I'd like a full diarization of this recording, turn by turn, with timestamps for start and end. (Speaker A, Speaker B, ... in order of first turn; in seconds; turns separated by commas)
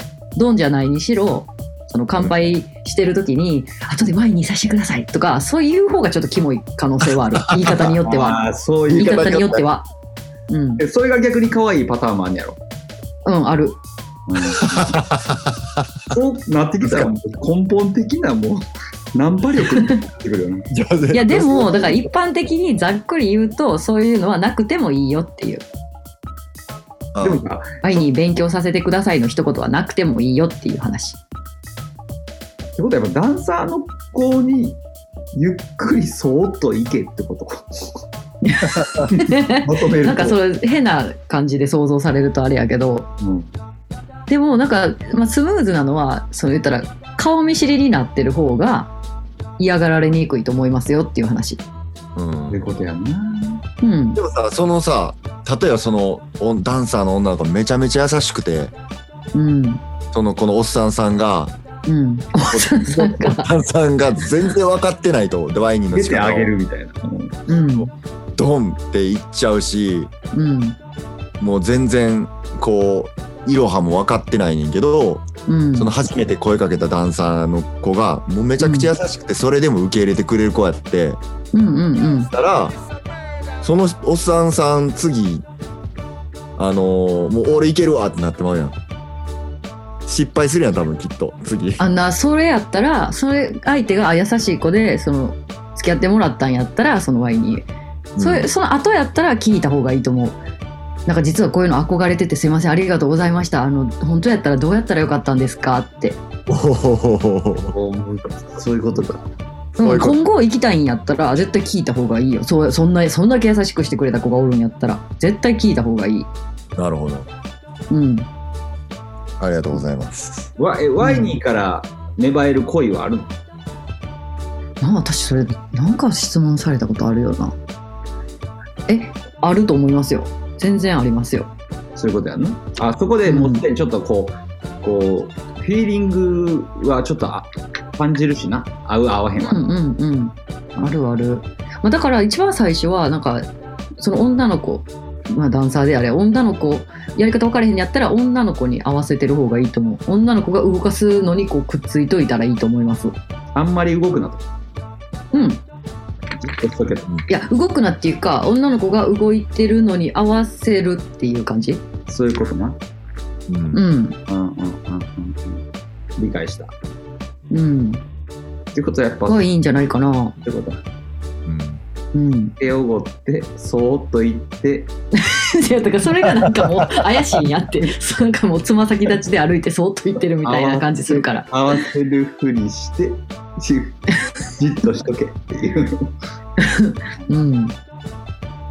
Speaker A: 0.3-9.9, Speaker B: 7.4-8.0, Speaker C: 8.0-9.2, Speaker B: 8.9-9.7, Speaker A: 10.5-10.8, Speaker C: 10.8-12.6, Speaker A: 13.2-13.8, Speaker C: 14.3-14.9, Speaker B: 14.5-15.9, Speaker C: 16.1-20.7, Speaker B: 16.8-17.1, Speaker B: 20.7-22.1, Speaker A: 21.1-25.6, Speaker B: 27.1-27.4, Speaker C: 27.2-27.8, Speaker A: 27.8-31.2, Speaker C: 32.8-34.8, Speaker C: 35.3-38.0, Speaker A: 38.4-43.1, Speaker C: 39.1-40.4, Speaker C: 43.2-43.5, Speaker A: 44.3-48.9, Speaker A: 49.6-51.6, Speaker B: 52.1-52.7, Speaker C: 52.5-53.6, Speaker A: 53.8-54.2, Speaker B: 54.1-58.7, Speaker A: 59.3-59.8, Speaker B: 60.1-61.5, Speaker A: 61.9-63.5, Speaker B: 62.5-66.5, Speaker C: 65.9-67.4, Speaker A: 67.5-67.9, Speaker B: 68.3-70.1, Speaker A: 70.3-70.8, Speaker B: 71.4-81.2, Speaker A: 75.5-75.9, Speaker A: 78.6-78.9, Speaker A: 81.5-82.3, Speaker B: 82.3-82.8, Speaker B: 83.6-85.5, Speaker B: 86.5-88.8, Speaker B: 90.0-91.8, Speaker A: 91.8-97.7, Speaker B: 98.2-98.5, Speaker A: 98.2-100.4, Speaker A: 101.0-106.2, Speaker B: 106.5-107.7, Speaker C: 107.7-109.2, Speaker A: 109.8-116.3, Speaker B: 109.8-110.2, Speaker B: 116.8-117.3, Speaker A: 117.9-118.3, Speaker B: 119.4-120.5, Speaker C: 120.6-123.3, Speaker A: 121.0-121.4, Speaker A: 124.8-127.5, Speaker A: 128.9-131.5, Speaker C: 131.9-139.7, Speaker A: 133.2-133.6, Speaker A: 139.5-143.4, Speaker A: 144.0-153.2, Speaker C: 153.5-154.4, Speaker A: 155.3-155.6, Speaker C: 156.4-157.1, Speaker A: 157.3-161.8, Speaker C: 162.1-162.8, Speaker B: 163.5-163.8, Speaker A: 163.7-164.2, Speaker C: 164.3-165.6, Speaker C: 166.2-166.7, Speaker A: 167.5-168.0, Speaker C: 168.7-169.5, Speaker A: 169.3-170.3, Speaker C: 170.4-170.8, Speaker B: 171.4-171.8, Speaker A: 172.1-172.5, Speaker C: 172.6-174.9, Speaker A: 175.2-181.5, Speaker C: 180.4-186.1, Speaker A: 186.6-187.7